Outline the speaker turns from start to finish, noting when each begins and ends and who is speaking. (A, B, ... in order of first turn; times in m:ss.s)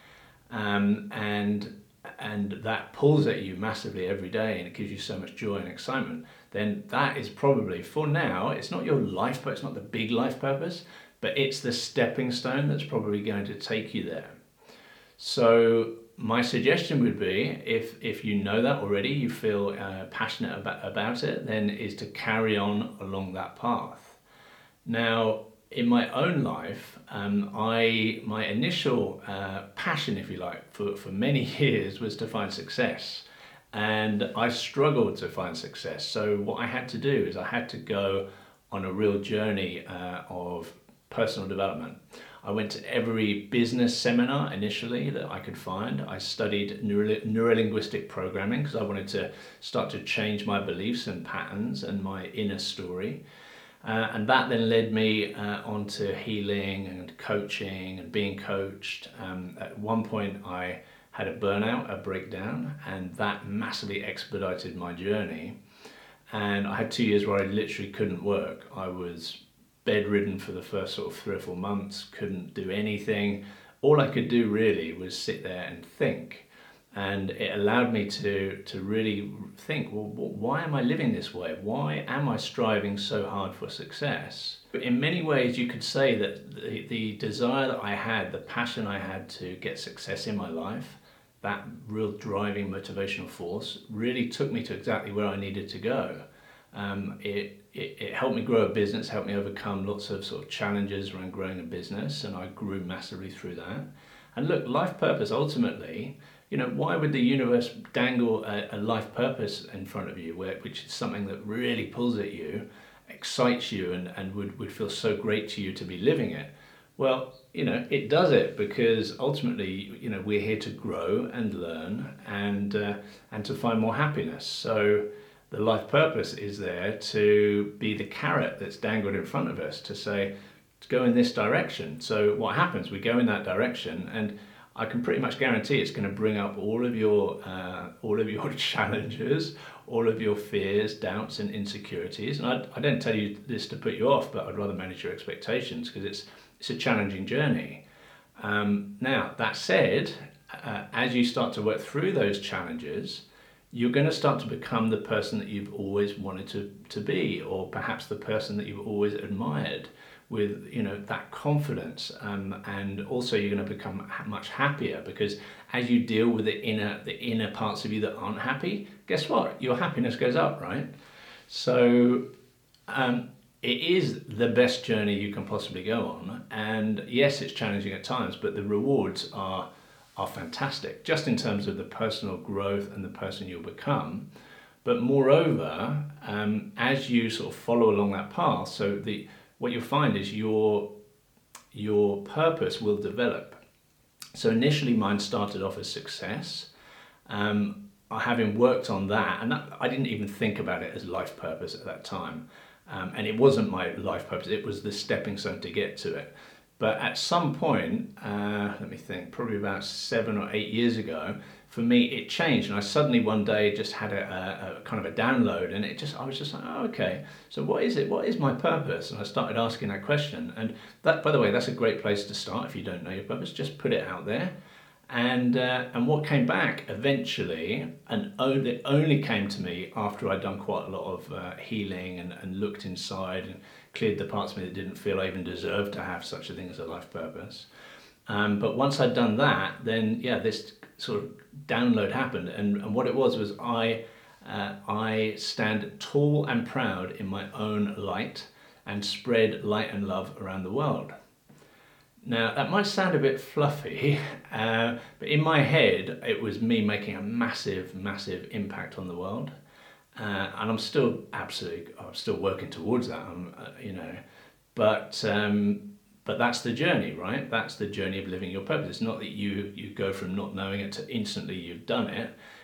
0:00.5-0:14.3 A
0:15.2-0:24.2 A
0:24.8-0:53.2 A
0:53.8-1:05.6 A
1:06.3-2:10.3 A
2:10.8-2:27.8 A
2:28.4-2:50.9 A
2:51.5-2:52.2 A
2:52.9-3:04.2 A
3:04.8-3:10.9 A
3:11.7-3:13.6 A
3:14.3-3:16.7 A
3:17.3-3:44.5 A
3:45.1-3:57.7 A
3:58.3-4:11.1 A
4:12.2-4:19.5 A
4:20.2-4:24.2 A
4:24.7-4:32.3 A